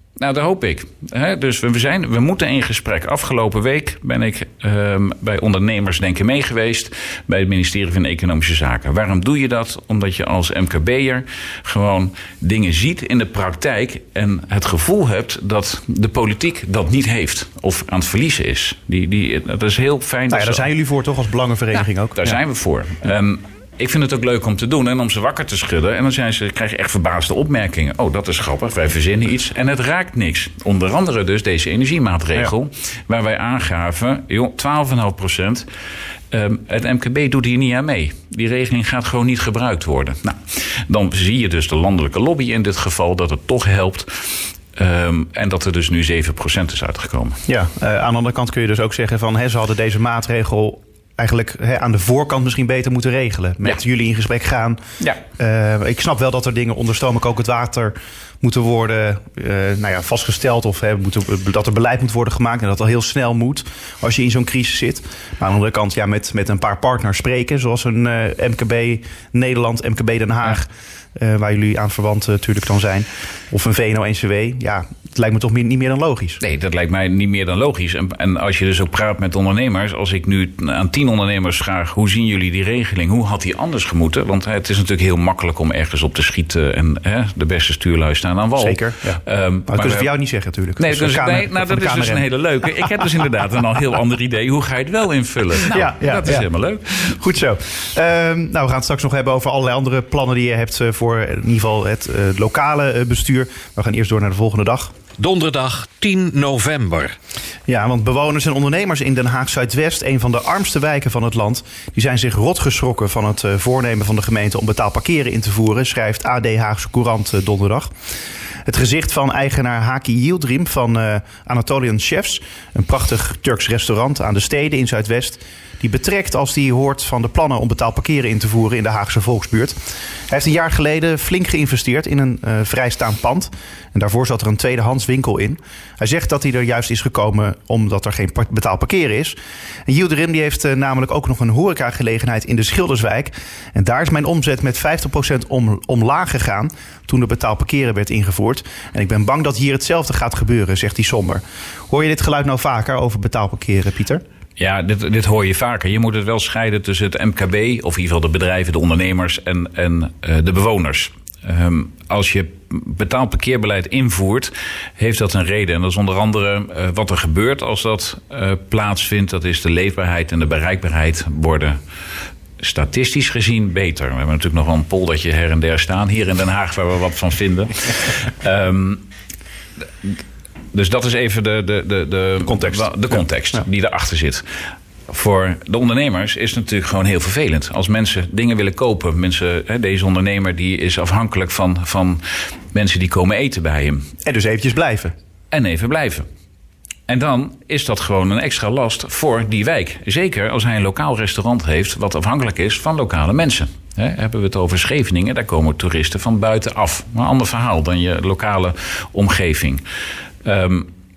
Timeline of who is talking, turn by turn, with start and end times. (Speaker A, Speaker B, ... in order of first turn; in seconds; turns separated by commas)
Speaker A: 0.2-20.6, Speaker B: 20.3-22.4, Speaker A: 22.1-35.7, Speaker A: 36.3-47.4, Speaker B: 47.5-76.4, Speaker A: 76.4-90.1, Speaker B: 88.6-93.1, Speaker A: 90.8-97.2, Speaker B: 95.7-96.5, Speaker B: 97.0-104.9, Speaker C: 105.2-107.1, Speaker B: 107.7-117.9, Speaker B: 118.7-129.8, Speaker B: 130.3-154.2, Speaker A: 154.6-171.8, Speaker A: 172.6-179.0, Speaker A: 180.7-184.4, Speaker B: 182.4-183.2, Speaker A: 185.1-194.1, Speaker B: 194.2-195.1, Speaker A: 195.5-196.3, Speaker A: 197.1-209.8, Speaker A: 210.4-210.9